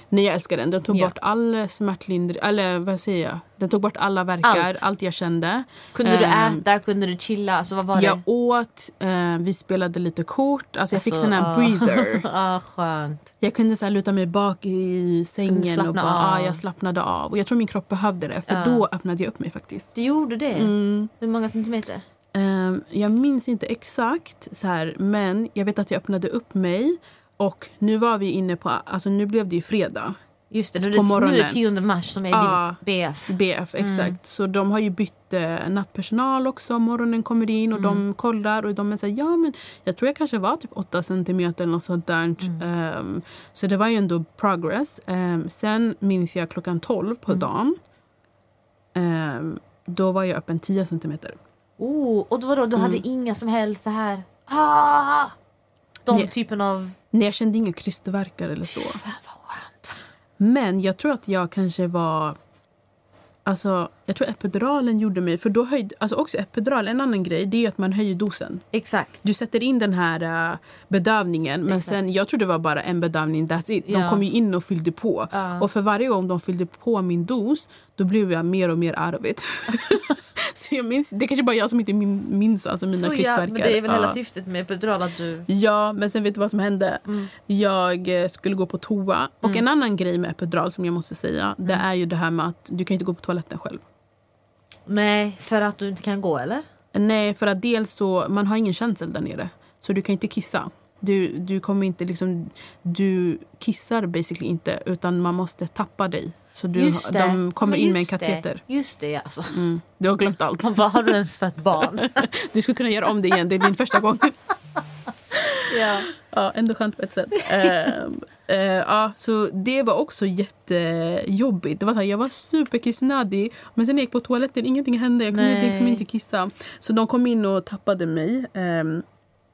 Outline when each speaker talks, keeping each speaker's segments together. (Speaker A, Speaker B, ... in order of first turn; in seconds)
Speaker A: 0.1-6.6, 7.9-12.2, 13.4-19.9, 20.6-21.1, 22.3-30.1, 30.8-31.6, 32.3-47.8, 49.0-51.4, 52.8-53.0, 57.1-59.0, 60.4-62.4, 63.5-68.7, 69.2-84.2, 85.5-93.8, 96.9-108.6, 109.5-111.1, 111.8-114.4, 115.5-129.1
Speaker B: 4.4-4.8, 6.0-8.2, 10.9-13.3, 15.5-16.6, 18.5-18.9, 19.9-22.0, 30.5-34.2, 37.7-38.0, 51.8-55.3, 56.0-57.0, 58.7-60.0, 68.7-69.2, 71.7-72.0, 73.9-74.2, 75.3-75.7, 82.9-85.5, 87.0-87.3, 94.9-96.6, 106.7-109.6, 110.6-112.3, 115.7-116.1, 117.5-117.9, 125.3-126.0